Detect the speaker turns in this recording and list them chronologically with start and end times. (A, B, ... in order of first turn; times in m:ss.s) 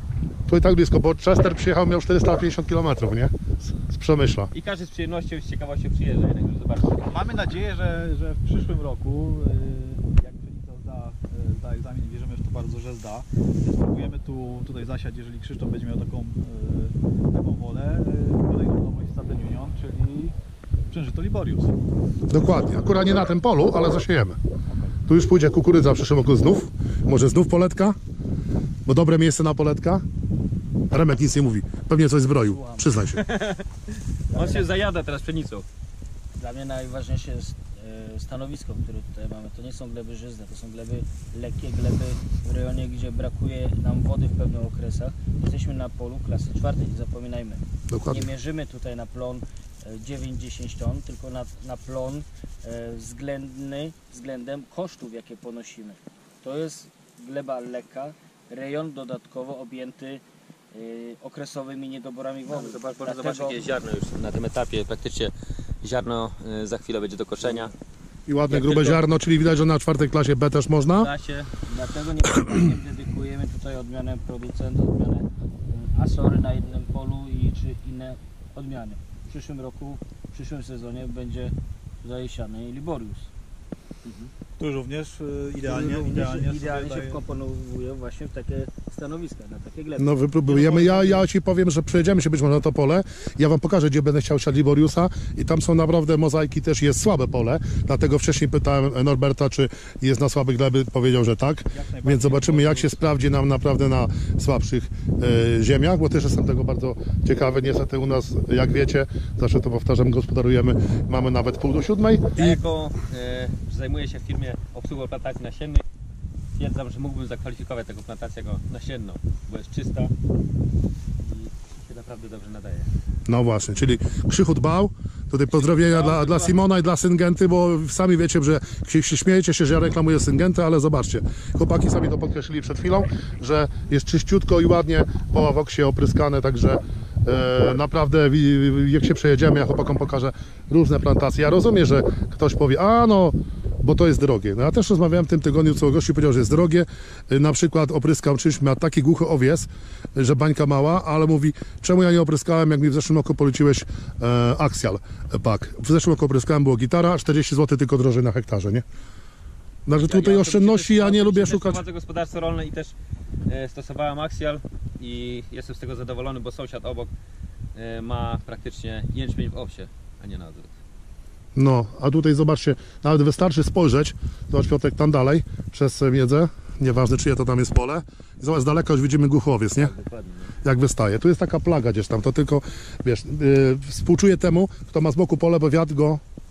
0:00.5-0:04.5 A
0:04.5-0:07.2 B
0:07.1-0:20.3 C
0:20.9-0:21.8 C
0:22.3-0:24.4 A
0:24.7-0:25.0 C
0:25.1-0:28.0 A
0:28.8-0:30.0 A
0:30.9-0:33.2 A
0:32.4-0:32.9 C
0:33.1-0:33.6 B
0:34.3-0:34.7 C
0:34.3-0:35.6 B
0:36.3-1:00.2 D
0:47.9-0:48.3 A
1:00.7-1:03.6 D
1:02.5-1:07.7 B
1:08.3-1:11.1 A
1:08.5-1:09.0 B
1:10.9-1:11.5 B
1:11.7-1:23.3 D
1:24.0-1:24.3 B
1:24.6-1:27.2 C
1:25.6-1:30.1 D
1:30.0-1:52.6 A
1:30.5-1:31.2 C
1:41.7-1:43.0 C
1:52.4-1:55.8 B
1:56.6-2:00.1 B
2:01.2-2:02.9 B
2:03.3-2:38.8 A
2:05.5-2:06.5 B
2:39.8-2:41.8 A
2:39.9-2:42.9 B
2:43.5-2:47.1 B
2:47.7-2:50.7 B
2:51.6-2:59.9 A
2:59.8-3:00.5 B
3:00.6-3:06.2 A